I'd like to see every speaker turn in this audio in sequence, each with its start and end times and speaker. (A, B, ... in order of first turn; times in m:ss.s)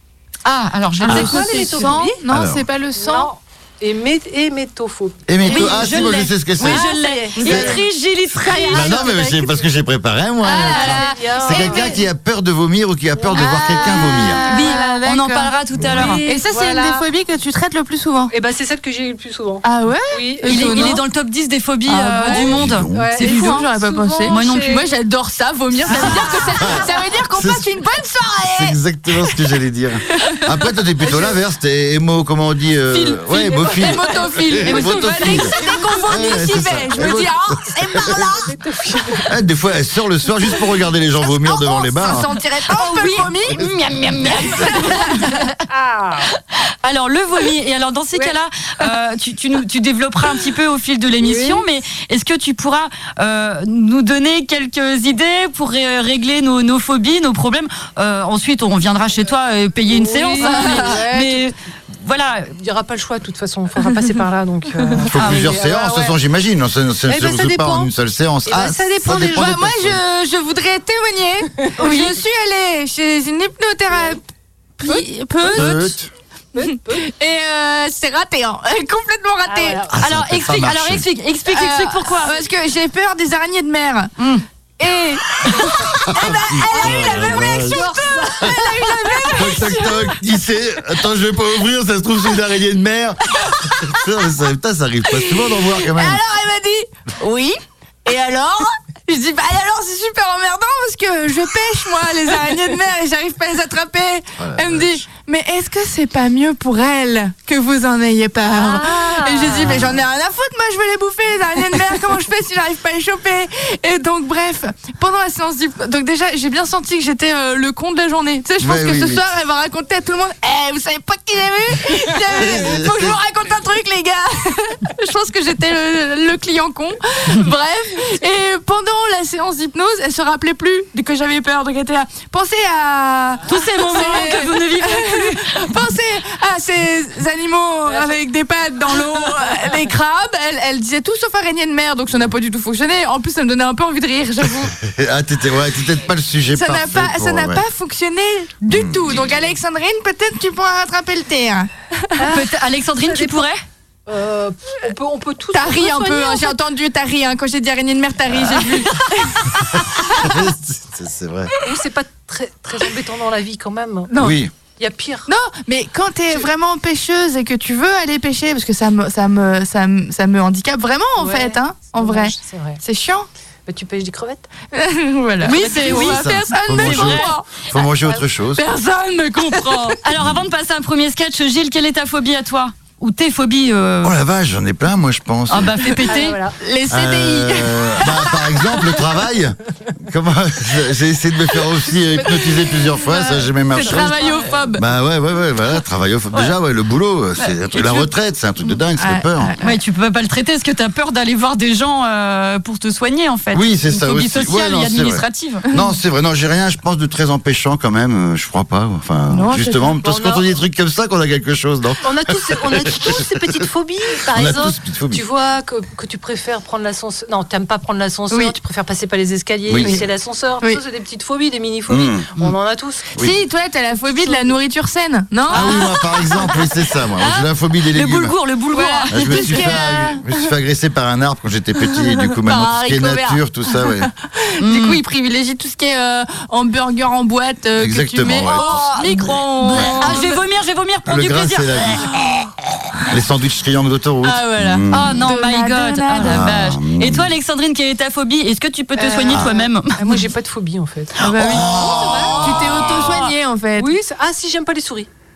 0:00.4-0:02.0 A
0:01.0-0:02.2 B
0:01.0-0:03.3 C
0:02.3-0:02.6 D
0:02.9-0:07.8 B
0:05.3-0:06.8 D
0:05.5-0:09.0 A
0:07.4-0:07.7 C
0:07.5-0:07.7 D
0:08.4-0:09.5 B
0:08.7-0:14.6 D
0:10.4-0:12.0 B
0:10.4-0:12.0 C
0:13.1-0:14.9 B
0:13.3-0:15.5 C
0:14.5-0:16.2 A
0:15.8-0:16.1 D
0:15.9-0:17.0 B
0:16.2-0:18.3 C
0:18.3-0:21.0 B
0:19.6-0:21.0 C
0:20.4-0:23.7 A
0:21.9-0:22.5 C
0:22.4-0:23.1 D
0:22.9-0:24.9 B
0:23.2-0:29.3 C
0:24.3-0:24.8 A
0:25.8-0:26.8 B
0:25.9-0:27.7 D
0:28.4-0:38.3 D
0:30.2-0:30.4 C
0:31.0-0:31.4 B
0:32.9-0:38.5 C
0:34.6-0:35.4 A
0:34.6-0:36.0 B
0:38.3-0:39.3 B
0:39.3-0:42.3 D
0:41.1-0:43.6 C
0:42.8-0:45.5 A
0:44.4-0:45.4 C
0:45.7-0:46.3 B
0:46.8-1:02.5 A
0:51.2-0:51.6 B
0:59.9-1:01.4 B
1:00.4-1:01.0 C
1:02.6-1:06.1 B
1:05.1-1:10.0 D
1:07.1-1:07.9 B
1:08.4-1:09.6 B
1:09.1-1:14.2 C
1:11.8-1:12.2 A
1:14.8-1:16.0 C
1:14.9-1:15.7 B
1:15.5-1:16.1 D
1:16.5-1:17.0 B
1:16.7-1:19.8 C
1:19.4-1:20.0 B
1:19.9-1:21.0 D
1:20.0-1:22.4 A
1:21.5-1:24.1 C
1:24.2-1:24.4 A
1:24.8-1:30.2 C
1:26.0-1:27.8 D
1:26.6-1:29.7 B
1:29.3-1:36.2 D
1:33.5-1:33.8 C
1:35.0-2:24.7 C
1:44.4-1:44.9 D
1:48.5-1:49.9 B
1:58.6-1:59.3 D
2:02.3-2:03.2 D
2:13.5-2:15.4 A
2:24.8-2:27.6 D
2:26.5-2:31.7 C
2:28.7-2:29.2 D
2:32.2-2:33.4 B
2:32.2-2:33.6 A
2:34.0-2:36.6 B
2:35.5-2:39.4 C
2:39.7-2:41.5 D
2:41.6-2:44.1 B
2:44.1-2:44.4 C
2:44.2-2:44.5 D
2:44.8-2:45.3 B
2:45.3-2:53.3 C
2:51.2-2:52.8 B
2:53.6-2:54.5 B
2:54.7-2:57.4 C
2:55.4-2:57.2 A
2:55.5-2:56.1 B
2:55.9-2:58.6 D
2:58.6-3:00.0 C
3:00.0-3:04.2 A
3:04.0-3:06.0 D
3:05.5-3:06.4 A
3:06.1-3:06.6 B
3:06.6-3:08.8 C
3:06.9-3:14.2 D
3:11.9-3:14.8 B
3:13.7-3:14.8 C
3:14.8-3:19.6 D
3:18.6-3:19.8 C
3:19.6-3:25.6 A
3:23.5-3:33.6 D
3:29.3-3:29.9 C
3:30.0-3:30.5 B
3:32.0-3:43.1 B
3:34.3-3:35.2 D
3:39.7-3:40.0 D
3:39.8-3:40.1 C
3:41.9-3:42.3 D
3:43.2-3:45.7 C
3:44.1-3:44.5 B
3:45.5-3:48.3 D
3:45.5-3:46.2 A
3:47.2-3:49.7 A
3:48.7-3:50.3 C
3:49.1-3:54.1 D
3:51.9-4:00.4 C
3:54.6-3:55.0 A
3:57.8-4:00.1 D
3:59.7-4:01.9 A
4:01.1-4:02.1 D
4:03.1-4:05.2 D
4:04.2-4:06.4 C
4:04.9-4:10.2 A
4:06.2-4:07.3 D
4:09.0-4:15.1 B
4:11.2-4:11.8 C
4:11.5-4:12.8 D
4:12.4-4:13.9 C